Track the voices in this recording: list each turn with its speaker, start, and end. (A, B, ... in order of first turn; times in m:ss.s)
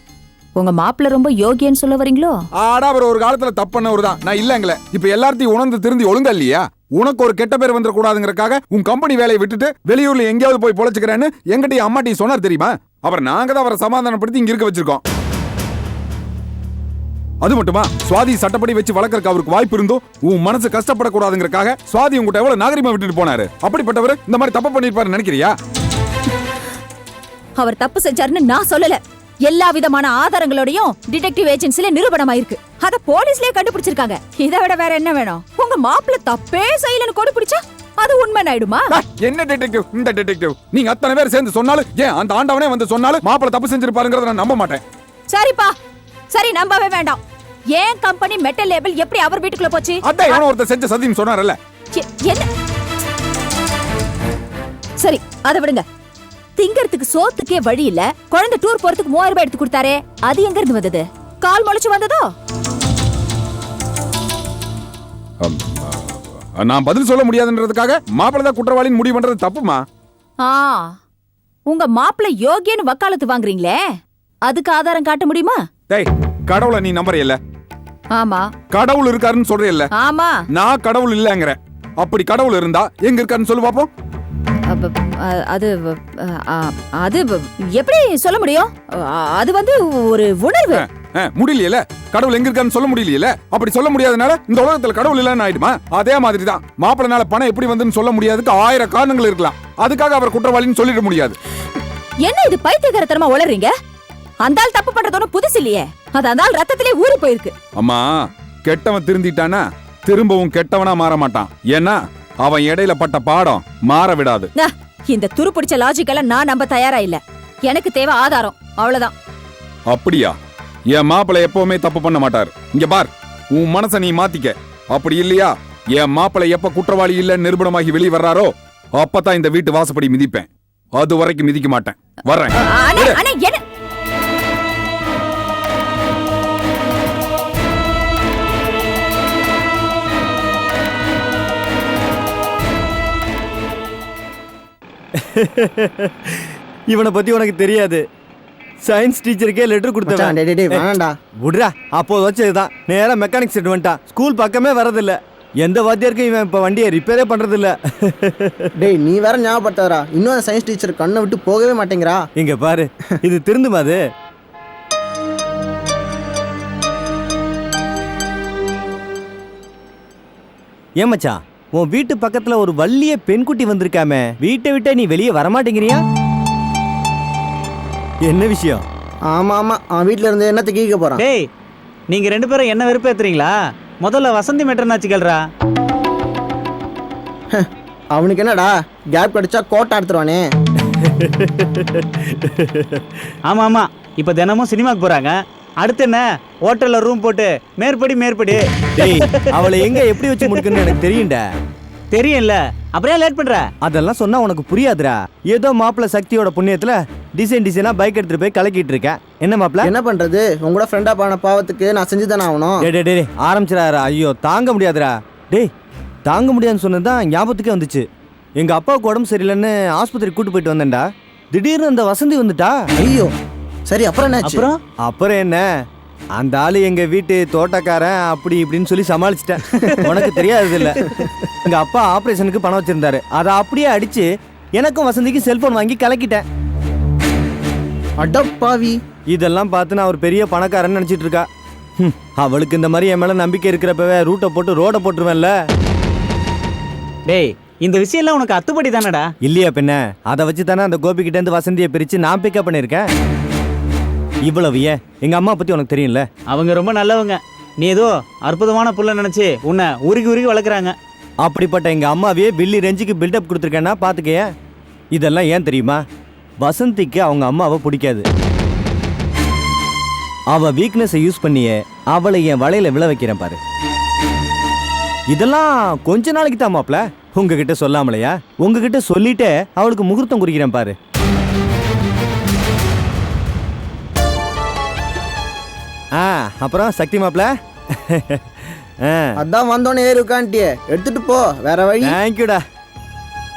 0:00.6-0:02.4 A
0:02.6-0:15.0 B
0:17.4-0:25.5 B
0:27.6-0:38.9 A
0:38.9-0:44.8 B
0:45.3-0:45.7 A
0:46.3-0:47.2 A
0:47.7-0:50.4 A
0:50.0-0:51.6 B
0:51.9-0:52.5 A
0:55.0-0:55.8 A
0:56.6-1:02.3 A
1:05.4-1:09.8 B
1:10.4-1:11.0 A
1:11.7-1:13.8 A
1:14.4-1:15.6 A
1:15.9-1:17.4 B
1:18.1-1:18.5 A
1:18.7-1:19.9 B
1:19.9-1:20.4 A
1:20.5-1:23.9 B
1:24.7-1:30.8 A
1:30.8-1:41.4 B
1:42.2-1:43.7 A
1:44.4-1:47.5 A
1:47.8-1:54.5 B
1:54.6-1:59.1 A
1:59.9-2:00.4 B
2:00.9-2:13.2 B
2:12.6-2:13.6 A
2:25.2-2:28.0 C
2:28.8-2:30.9 C
2:30.1-2:31.2 D
2:31.4-2:38.7 C
2:38.8-2:42.2 D
2:42.4-2:44.0 C
2:51.0-2:56.0 C
2:58.2-2:58.8 C
2:59.3-3:01.2 D
3:01.2-3:01.5 E
3:02.1-3:05.4 E
3:07.5-3:10.4 D
3:11.0-3:13.0 C
3:13.4-3:20.6 E
3:19.0-3:21.4 C
3:22.1-3:23.7 E
3:23.8-3:29.9 C
3:29.8-3:32.8 D
3:32.8-3:35.7 C
3:36.2-3:38.0 C
3:38.6-3:42.8 C
3:43.0-3:43.3 D
3:43.9-3:44.7 D
3:44.4-3:44.7 E
3:45.0-3:45.6 C
3:46.4-3:51.0 C
3:51.7-3:56.4 C
3:58.2-3:59.0 D
3:59.3-4:01.5 C
4:02.0-4:05.6 C
4:07.3-4:09.3 E
4:09.4-4:13.1 C
4:14.4-4:16.3 C
4:16.5-4:21.0 E
4:21.4-4:24.5 C
4:25.1-4:26.0 C
4:26.6-4:28.3 C
4:30.5-4:33.6 C
4:35.3-4:41.0 C
4:46.2-4:49.4 C
4:49.4-4:52.1 D
4:52.0-4:52.6 C